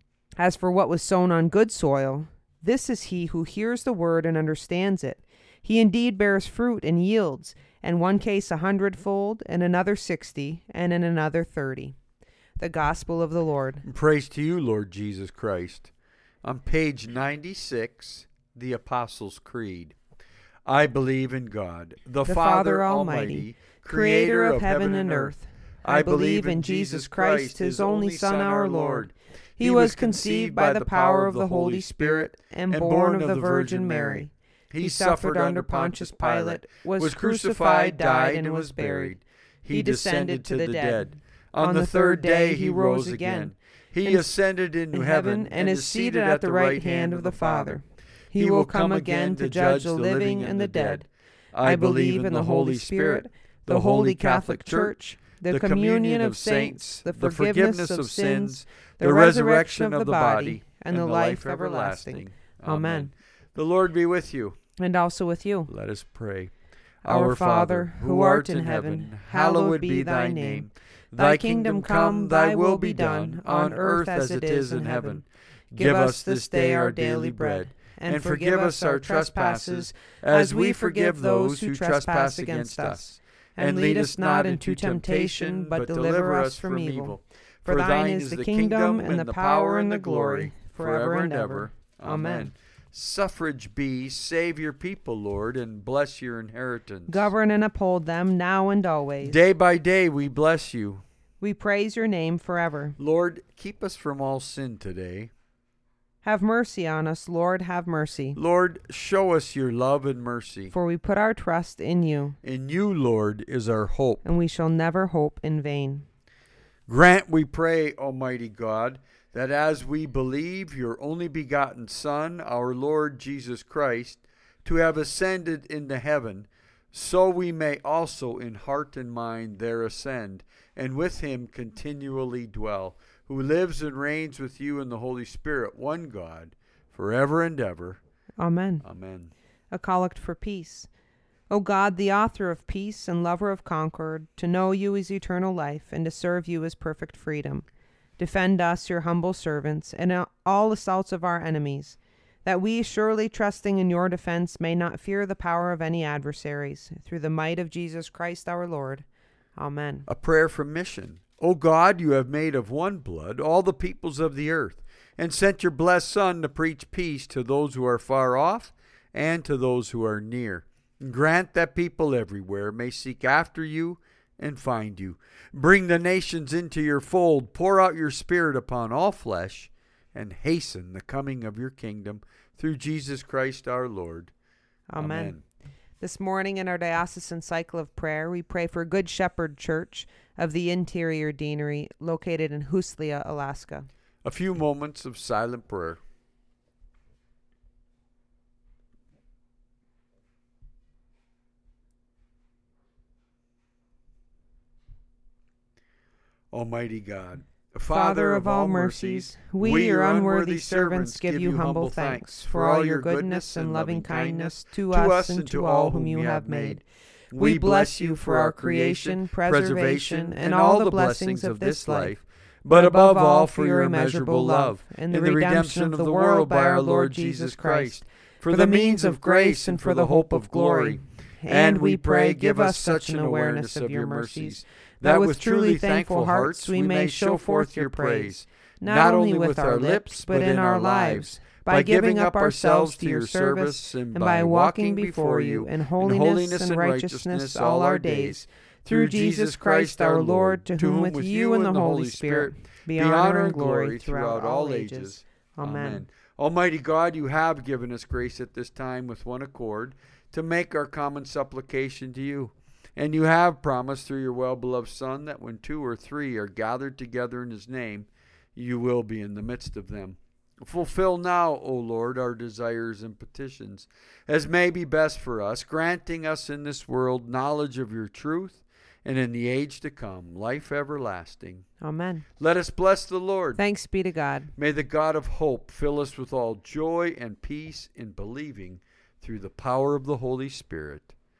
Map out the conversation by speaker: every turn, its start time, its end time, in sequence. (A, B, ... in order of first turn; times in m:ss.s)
0:00.4-0:12.0 A
0:12.6-0:13.8 A
0:13.8-0:15.9 B
0:16.4-0:20.0 B
0:20.6-0:47.8 B
0:22.2-0:39.2 A
0:39.7-0:43.5 A
0:44.0-0:44.3 A
0:44.9-0:51.0 A
0:48.3-1:04.6 B
0:51.6-1:03.1 A
1:04.8-1:05.7 A
1:05.7-1:06.5 B
1:07.0-1:23.0 B
1:07.0-1:15.2 A
1:15.8-1:32.5 A
1:23.6-1:37.3 B
1:37.1-1:39.4 A
1:39.2-1:41.0 B
1:41.4-1:43.0 A
1:43.0-1:45.3 B
1:46.2-1:48.4 A
1:48.3-1:50.7 B
1:50.7-1:52.4 A
1:52.4-1:54.2 B
1:54.2-1:56.0 A
1:56.9-2:18.0 B
2:18.4-2:18.8 A
2:18.8-2:19.3 B
2:19.7-2:20.9 A
2:21.5-2:27.6 A
2:28.2-2:39.0 A
2:39.6-2:40.0 A
2:40.1-3:04.3 B
3:04.9-3:05.4 A
3:05.0-3:05.4 B
3:06.0-3:13.9 A
3:14.2-3:16.0 B
3:26.5-3:36.8 B
3:27.9-3:36.8 A
3:37.3-4:41.6 B
3:37.3-3:42.2 A
3:42.7-4:16.0 A
4:41.8-4:42.2 A
4:42.4-4:43.6 B
4:43.6-4:44.5 A
4:44.6-4:51.1 B